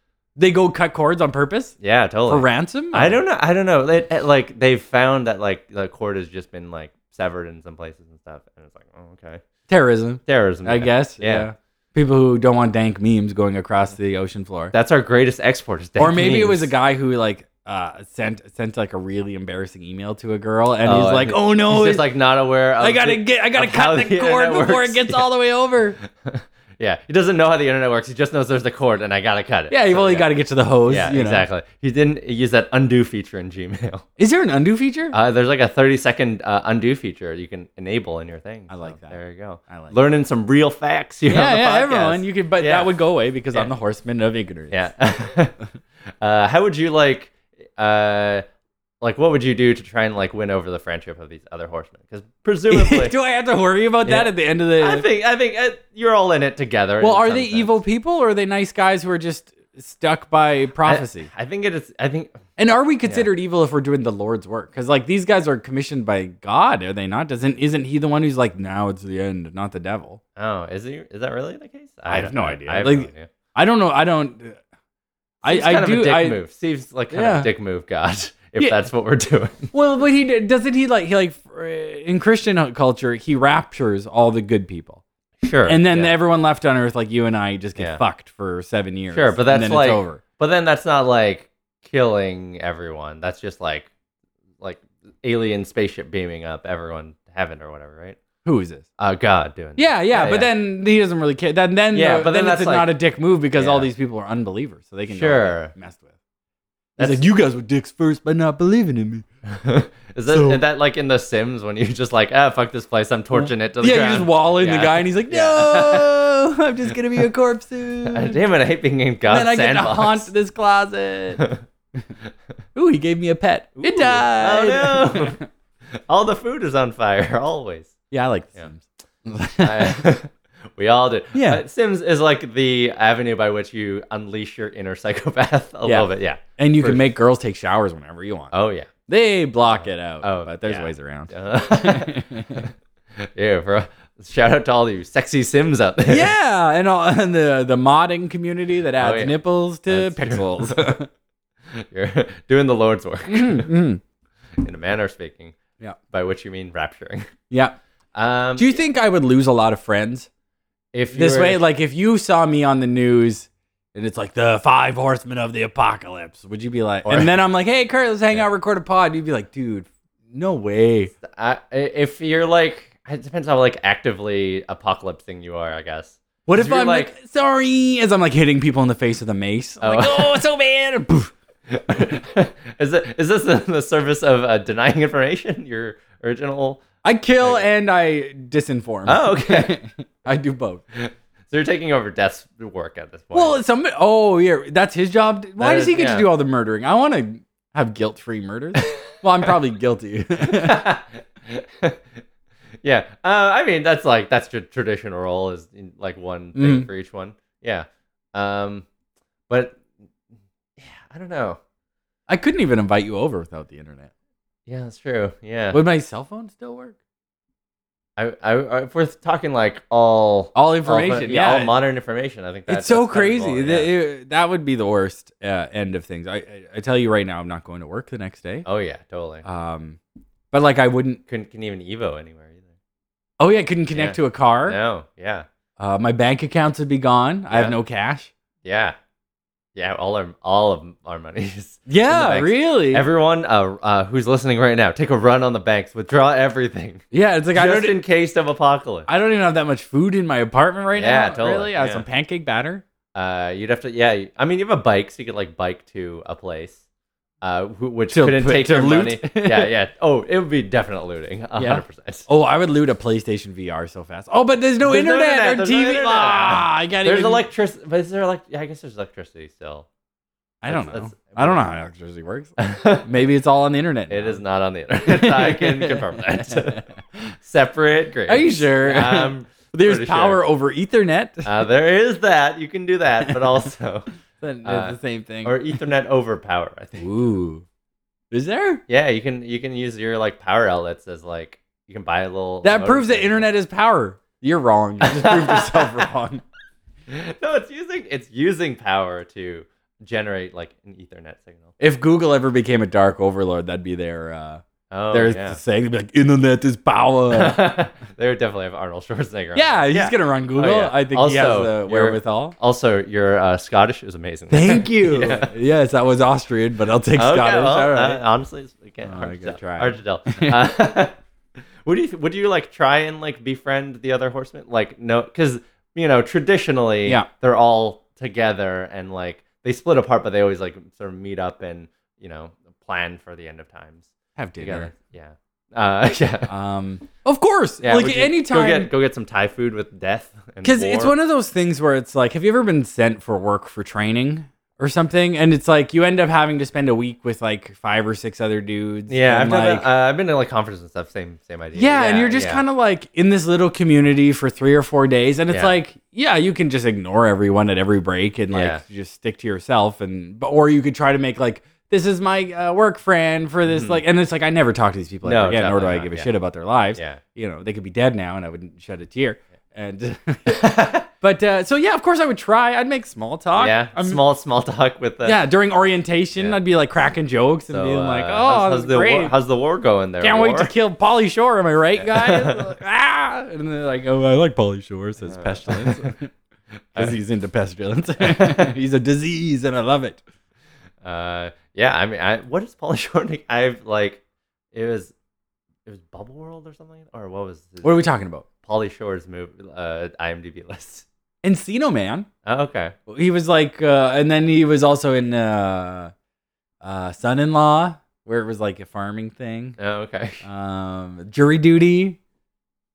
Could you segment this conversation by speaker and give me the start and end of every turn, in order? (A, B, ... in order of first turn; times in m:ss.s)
0:00.4-0:01.8 A
0:01.8-0:09.4 B
0:02.3-0:03.2 A
0:09.7-0:14.7 A
0:10.3-0:11.5 B
0:14.7-0:16.7 B
0:16.0-0:22.1 A
0:20.8-0:25.3 B
0:22.8-0:26.0 A
0:26.2-0:30.3 B
0:29.7-0:31.5 A
0:30.9-0:34.1 B
0:34.2-0:35.2 A
0:35.1-0:42.9 B
0:38.7-0:40.0 A
0:41.3-0:44.8 A
0:44.7-0:45.6 B
0:46.2-0:48.4 B
0:49.0-0:53.2 B
0:52.7-0:55.1 A
0:54.0-0:57.8 B
0:57.0-1:01.3 A
1:00.8-1:02.4 B
1:02.6-1:10.2 A
1:10.4-1:13.3 B
1:12.1-1:14.6 A
1:15.4-1:19.7 B
1:15.4-1:16.4 A
1:17.1-1:17.5 A
1:19.7-1:25.0 A
1:25.4-1:26.2 B
1:25.7-1:30.2 A
1:27.8-1:28.0 B
1:29.1-1:33.9 B
1:34.6-1:38.2 B
1:38.4-1:38.9 A
1:39.0-1:40.5 B
1:39.8-1:46.1 A
1:41.9-1:42.9 B
1:43.6-1:43.9 B
1:45.1-1:45.7 B
1:47.0-1:47.2 B
1:47.0-1:49.2 A
1:49.5-1:56.2 B
1:50.3-1:50.6 A
1:53.3-1:58.4 A
1:58.1-2:00.3 B
1:59.3-2:01.5 A
2:02.8-2:05.4 A
2:03.8-2:05.4 B
2:05.9-2:08.0 B
2:08.1-2:10.0 A
2:09.6-2:17.1 B
2:11.3-2:11.6 A
2:15.8-2:18.5 A
2:18.5-2:18.9 B
2:19.1-2:22.7 A
2:19.7-2:26.3 B
2:26.1-2:31.1 A
2:29.0-2:31.0 B
2:31.7-2:33.7 B
2:33.3-2:34.0 A
2:34.6-2:35.6 B
2:36.1-2:37.3 B
2:37.5-2:37.8 A
2:38.1-2:38.8 B
2:38.6-2:40.3 A
2:40.9-2:41.6 B
2:41.1-2:51.1 A
2:47.0-2:47.3 B
2:51.2-2:57.1 B
2:56.5-3:01.3 A
2:59.8-3:00.4 B
3:01.7-3:06.8 B
3:07.0-3:10.8 A
3:07.4-3:07.7 B
3:09.1-3:09.8 B
3:11.0-3:13.6 B
3:13.3-3:20.9 A
3:15.6-3:16.3 B
3:18.8-3:19.5 B
3:20.4-3:22.0 B
3:22.8-3:28.9 B
3:26.6-3:26.9 A
3:29.5-3:29.8 B
3:30.8-3:31.6 B
3:32.3-3:34.1 A
3:34.7-3:35.8 B
3:35.7-3:37.0 A
3:38.2-3:43.9 B
3:40.6-3:41.7 A
3:42.7-3:48.7 A
3:48.6-3:49.4 B
3:49.4-3:50.0 A
3:50.5-3:51.2 A
3:51.3-3:52.7 B
3:53.4-3:54.8 A
3:53.9-3:55.5 B
3:55.8-3:58.3 A
3:57.5-3:57.8 B
3:58.6-3:59.0 B
3:59.8-4:07.0 B
4:01.9-4:03.1 A
4:07.1-4:08.0 A
4:07.6-4:09.1 B
4:09.1-4:12.8 A
4:11.0-4:12.0 B
4:13.1-4:16.8 B
4:17.4-4:22.3 B
4:18.1-4:19.7 A
4:21.6-4:27.4 A
4:24.8-4:29.9 B
4:30.6-4:34.4 A
4:30.7-4:31.6 B
4:32.6-4:33.1 B
4:34.1-4:40.4 B
4:35.0-4:36.8 A
4:38.3-4:41.5 A
4:41.4-4:44.1 B
4:44.4-4:45.6 A
4:44.6-4:47.1 B
4:47.0-4:47.6 A
4:48.3-4:48.8 A
4:48.9-4:53.5 B
4:52.6-4:56.4 A
4:55.0-4:56.1 B
4:57.1-5:01.7 B
5:01.8-5:07.6 A
5:04.9-5:05.6 B
5:07.3-5:15.5 B
5:09.6-5:12.6 A
5:14.5-5:18.2 A
5:17.1-5:21.2 B
5:19.0-5:20.7 A
5:21.8-5:36.5 B
5:34.4-5:34.9 A
5:36.5-5:38.9 A
5:37.8-5:41.2 B
5:40.6-5:49.9 A
5:49.1-5:52.6 B
5:51.8-6:10.6 A
5:58.5-5:58.8 B
6:03.7-6:04.0 B
6:05.2-6:06.3 B
6:07.0-6:07.2 B
6:10.5-6:11.1 B
6:11.2-6:14.2 A
6:13.6-6:15.4 B
6:15.2-6:19.3 A
6:17.7-6:20.7 B
6:20.2-6:26.3 A
6:22.0-6:22.7 B
6:25.2-6:26.1 B
6:27.0-6:30.2 A
6:28.2-6:28.7 B
6:31.0-6:34.2 B
6:34.7-6:35.1 B
6:35.9-6:38.0 B
6:37.8-6:38.4 A
6:38.6-6:41.1 B
6:41.4-6:42.3 A
6:42.4-6:42.9 B
6:43.1-6:46.1 A
6:46.8-6:49.8 A
6:49.8-6:50.4 B
6:50.4-6:52.2 A